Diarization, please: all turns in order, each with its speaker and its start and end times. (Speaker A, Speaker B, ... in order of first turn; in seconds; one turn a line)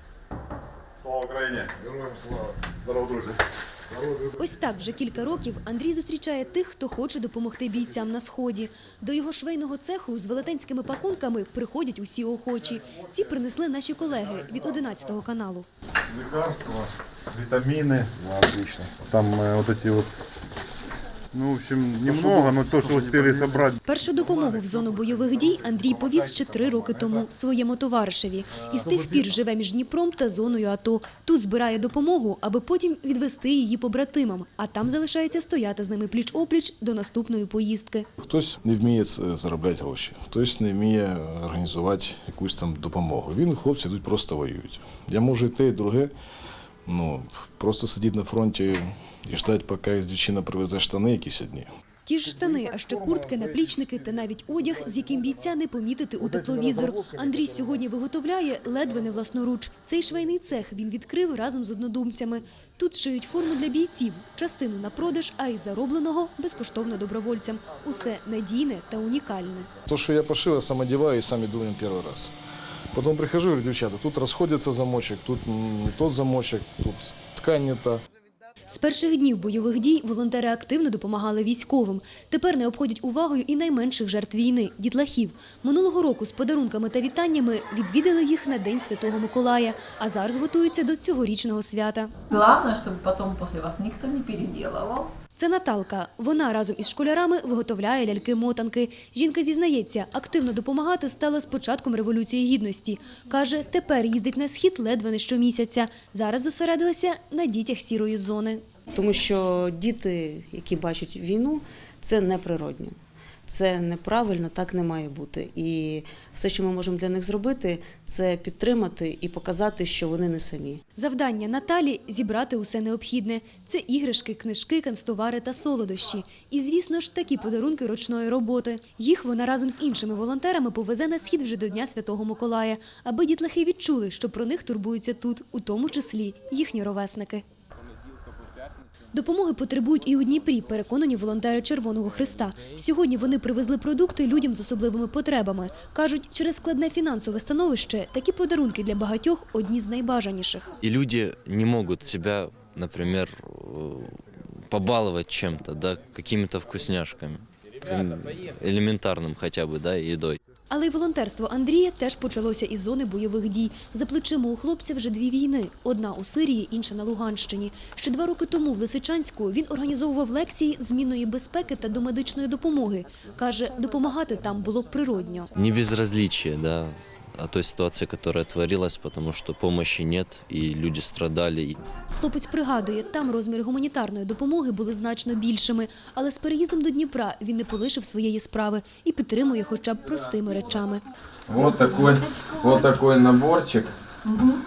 Speaker A: 1.0-1.7
Speaker A: 3.0-3.3
Speaker B: 4.4-15.7
Speaker A: 16.1-20.1
Speaker A: 21.3-23.8
Speaker B: 23.8-38.1
Speaker C: 38.2-46.1
Speaker C: 46.9-51.7
Speaker B: 52.0-69.7
Speaker C: 69.9-72.3
Speaker C: 72.9-78.0
Speaker B: 78.7-92.1
Speaker D: 92.3-95.1
Speaker B: 95.4-108.6
Speaker E: 108.9-120.8
Speaker B: 121.0-137.4
Speaker B: 139.1-150.7
Speaker F: 150.8-160.4
Speaker B: 160.7-175.5
Speaker F: 175.5-181.8
Speaker B: 182.2-191.0
Speaker G: 191.5-193.9